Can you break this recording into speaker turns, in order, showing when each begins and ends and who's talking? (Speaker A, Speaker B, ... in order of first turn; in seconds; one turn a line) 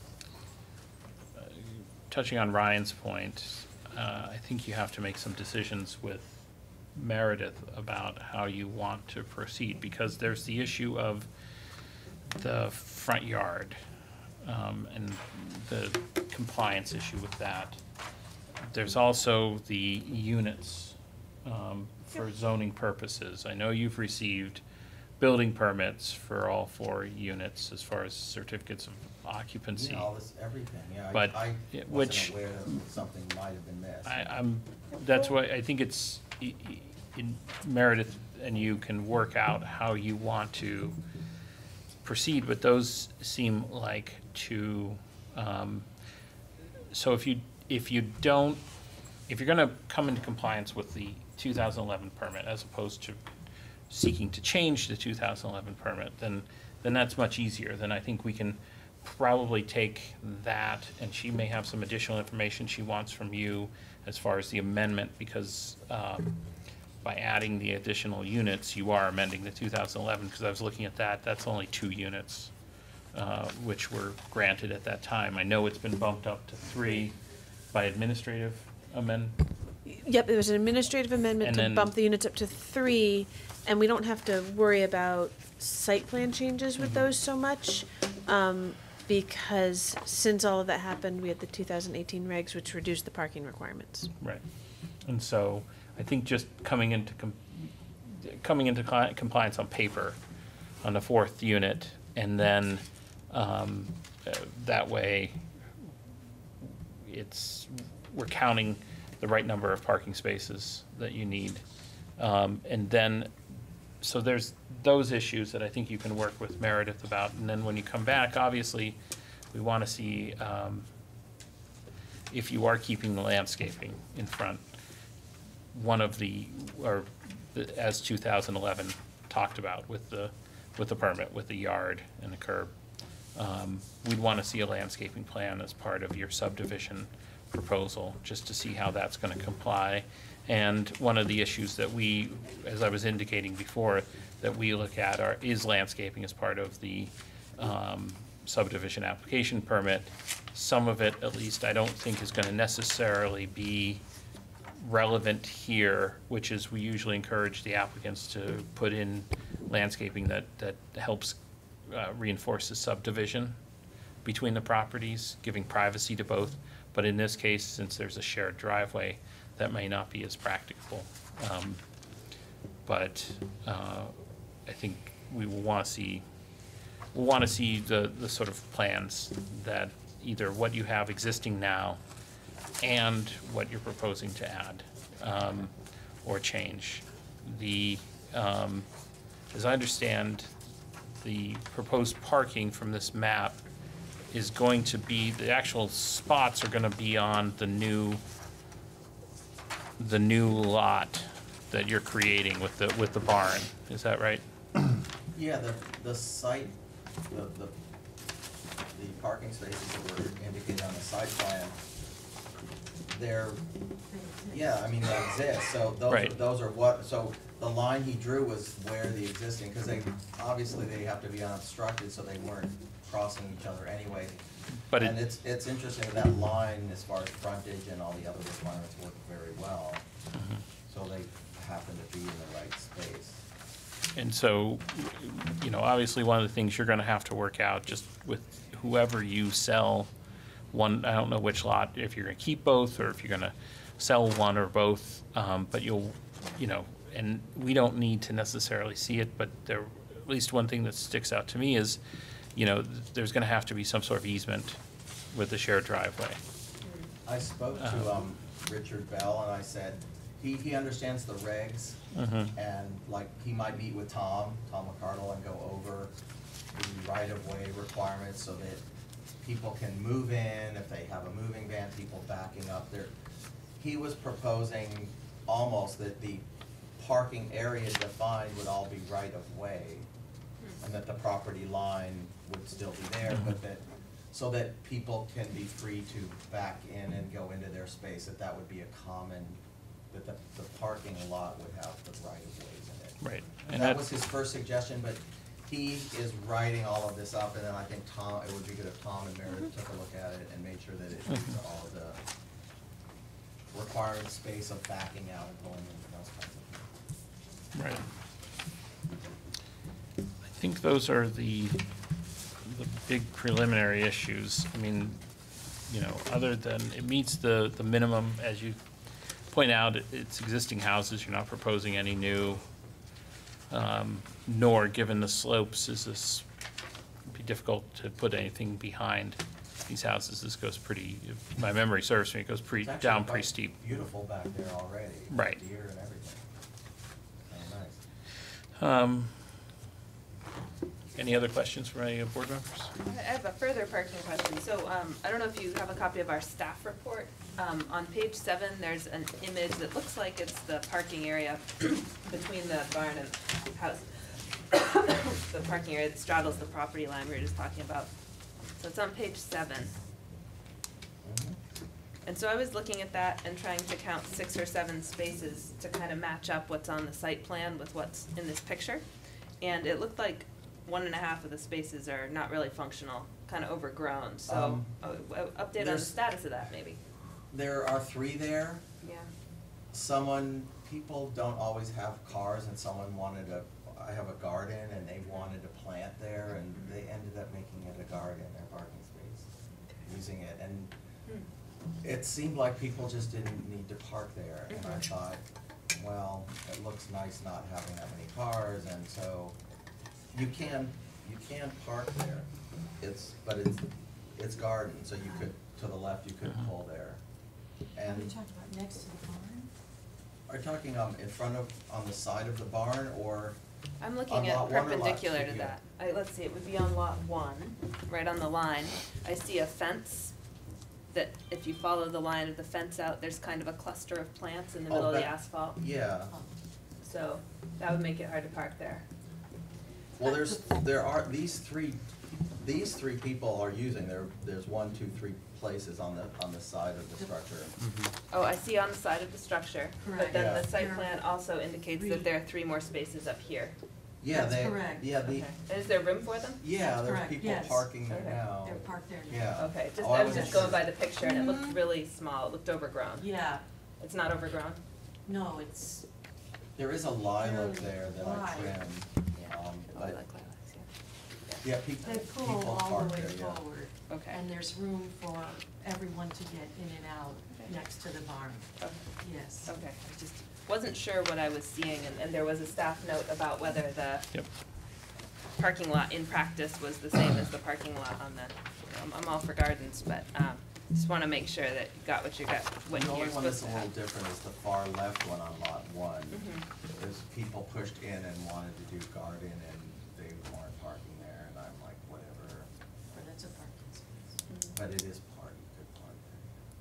Speaker A: 1.4-6.4
Speaker A: 6.9-11.3
Speaker A: 12.3-13.8
Speaker A: 14.4-17.8
Speaker A: 18.7-24.6
Speaker A: 25.2-30.1
Speaker B: 29.7-34.1
Speaker A: 31.1-32.3
Speaker A: 34.0-41.0
Speaker A: 42.0-45.9
Speaker A: 46.9-48.6
Speaker A: 49.3-53.2
Speaker A: 53.9-66.4
Speaker A: 67.0-72.5
Speaker A: 73.1-77.1
Speaker A: 77.7-79.4
Speaker C: 79.8-94.1
Speaker A: 81.4-81.9
Speaker A: 86.8-87.0
Speaker A: 95.0-100.2
Speaker A: 100.8-105.4
Speaker A: 106.6-111.6
Speaker A: 112.2-113.3
Speaker A: 114.0-119.0
Speaker A: 119.5-120.9
Speaker A: 122.3-124.6
Speaker A: 125.7-132.7
Speaker A: 133.3-154.0
Speaker A: 154.8-163.6
Speaker A: 164.2-171.8
Speaker A: 172.8-174.1
Speaker A: 174.7-176.2
Speaker A: 177.1-182.0
Speaker A: 182.8-185.7
Speaker A: 186.2-188.9
Speaker A: 189.5-190.5
Speaker A: 191.2-193.6
Speaker A: 194.3-198.2
Speaker A: 200.0-204.4
Speaker B: 205.3-206.8
Speaker B: 207.3-207.8
Speaker B: 208.9-211.8
Speaker B: 213.1-213.6
Speaker D: 214.1-214.9
Speaker B: 214.5-230.0
Speaker A: 216.1-216.4
Speaker A: 224.9-225.1
Speaker A: 230.3-230.6
Speaker B: 230.9-233.4
Speaker A: 234.1-240.1
Speaker A: 240.7-252.0
Speaker A: 252.5-254.8
Speaker A: 255.3-256.4
Speaker E: 256.8-257.1
Speaker B: 257.2-262.0
Speaker A: 257.8-258.2
Speaker A: 262.1-262.5
Speaker B: 262.5-266.1
Speaker B: 266.7-268.8
Speaker B: 269.4-273.1
Speaker B: 273.8-276.4
Speaker B: 277.0-280.1
Speaker B: 280.8-289.6
Speaker B: 290.1-302.2
Speaker A: 293.2-294.1
Speaker B: 303.7-306.9
Speaker A: 307.7-308.0
Speaker A: 310.4-311.8
Speaker A: 312.6-315.2
Speaker A: 315.9-318.8
Speaker A: 319.5-322.6
Speaker A: 323.7-326.4
Speaker A: 327.3-333.8
Speaker B: 332.8-336.4
Speaker A: 335.3-335.6
Speaker B: 337.5-338.0
Speaker A: 338.8-339.5
Speaker A: 341.1-342.9
Speaker E: 343.0-358.1
Speaker E: 358.7-360.0
Speaker B: 361.2-361.6
Speaker E: 362.2-369.1
Speaker E: 369.6-377.0
Speaker B: 374.4-374.9
Speaker B: 375.7-376.1
Speaker B: 377.5-378.8
Speaker E: 379.0-379.3
Speaker B: 379.9-389.5
Speaker B: 390.0-390.9
Speaker B: 392.0-395.4
Speaker E: 394.7-395.0
Speaker B: 395.9-399.6
Speaker B: 400.3-402.5
Speaker B: 403.0-407.2
Speaker B: 407.9-408.4
Speaker D: 408.0-409.7
Speaker B: 410.5-413.6
Speaker E: 414.0-420.3
Speaker B: 414.3-415.7
Speaker E: 421.1-425.8
Speaker B: 424.9-426.3
Speaker E: 427.0-429.0
Speaker B: 430.2-432.0
Speaker D: 430.2-430.8
Speaker B: 432.6-437.8
Speaker E: 438.3-443.8
Speaker D: 440.0-441.2
Speaker B: 440.3-440.7
Speaker D: 441.9-442.3
Speaker B: 444.2-445.5
Speaker D: 444.3-445.4
Speaker E: 445.2-446.6
Speaker B: 446.6-450.9
Speaker D: 446.9-451.8
Speaker E: 448.1-448.4
Speaker E: 449.5-453.5
Speaker D: 453.2-453.6
Speaker E: 454.0-454.8
Speaker D: 455.2-456.1
Speaker B: 456.8-460.2
Speaker D: 457.4-458.8
Speaker E: 459.9-460.9
Speaker B: 461.6-463.6
Speaker D: 462.0-469.8
Speaker E: 464.1-464.4
Speaker E: 467.5-467.8
Speaker E: 468.8-474.3
Speaker E: 475.6-483.9
Speaker B: 482.9-492.7
Speaker E: 486.3-486.6
Speaker D: 493.1-494.4
Speaker E: 494.5-494.8
Speaker B: 494.7-496.6